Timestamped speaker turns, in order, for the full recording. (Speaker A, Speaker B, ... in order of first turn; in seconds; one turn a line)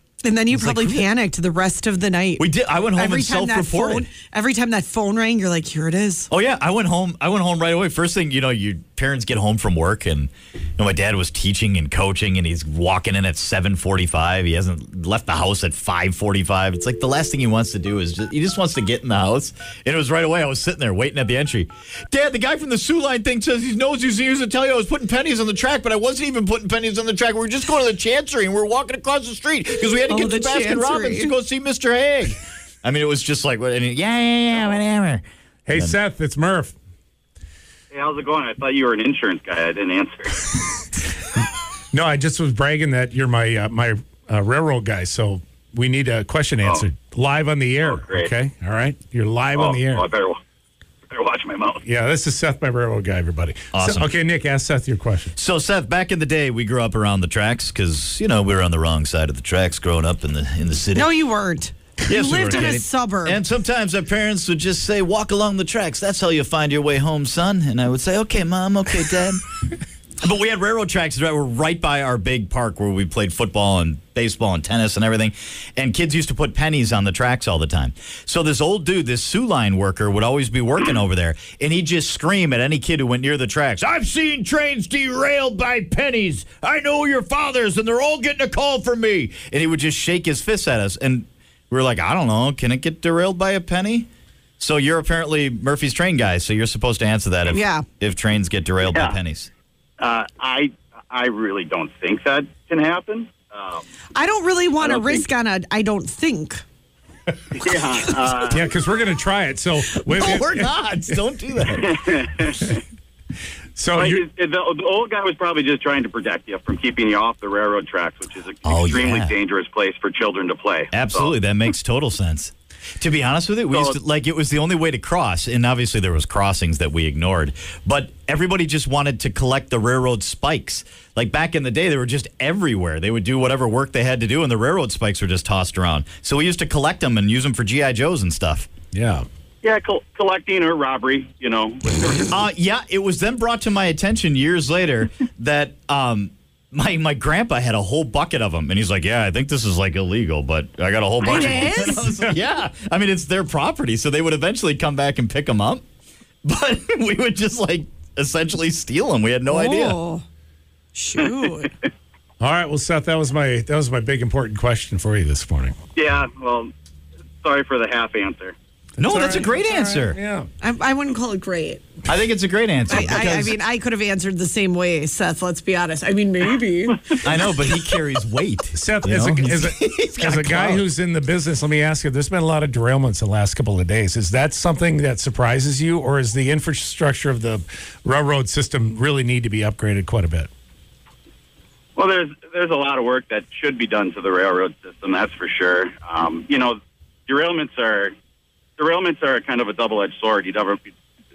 Speaker A: 0.2-6.3
Speaker B: 0.5-1.1
Speaker B: 2.4-4.1
Speaker B: 6.3-36.0
Speaker A: 30.0-31.4
Speaker C: 35.6-36.8
Speaker D: 37.9-40.5
Speaker C: 41.9-50.0
Speaker D: 47.8-48.3
Speaker D: 49.5-50.4
Speaker D: 51.1-51.8
Speaker C: 51.8-55.4
Speaker B: 53.7-54.1
Speaker B: 55.4-61.1
Speaker A: 61.0-63.4
Speaker B: 62.1-69.4
Speaker B: 70.2-99.5
Speaker A: 97.5-97.8
Speaker D: 100.0-103.8
Speaker A: 104.1-106.6
Speaker D: 104.8-105.2
Speaker D: 107.5-108.7
Speaker C: 108.5-110.7
Speaker B: 110.0-112.0
Speaker D: 111.8-112.8
Speaker C: 113.8-114.2
Speaker D: 114.0-121.3
Speaker B: 118.6-119.3
Speaker B: 120.9-138.7
Speaker C: 138.9-139.2
Speaker D: 139.6-142.3
Speaker B: 142.3-155.8
Speaker A: 151.2-152.2
Speaker B: 156.4-160.0
Speaker A: 159.5-160.2
Speaker A: 160.9-161.7
Speaker C: 162.4-165.8
Speaker D: 166.0-166.7
Speaker D: 167.4-168.5
Speaker B: 169.0-170.2
Speaker C: 169.0-170.5
Speaker A: 170.6-171.9
Speaker B: 172.1-173.6
Speaker A: 172.9-177.4
Speaker B: 177.2-180.9
Speaker C: 178.8-190.5
Speaker D: 192.0-198.1
Speaker D: 198.8-200.9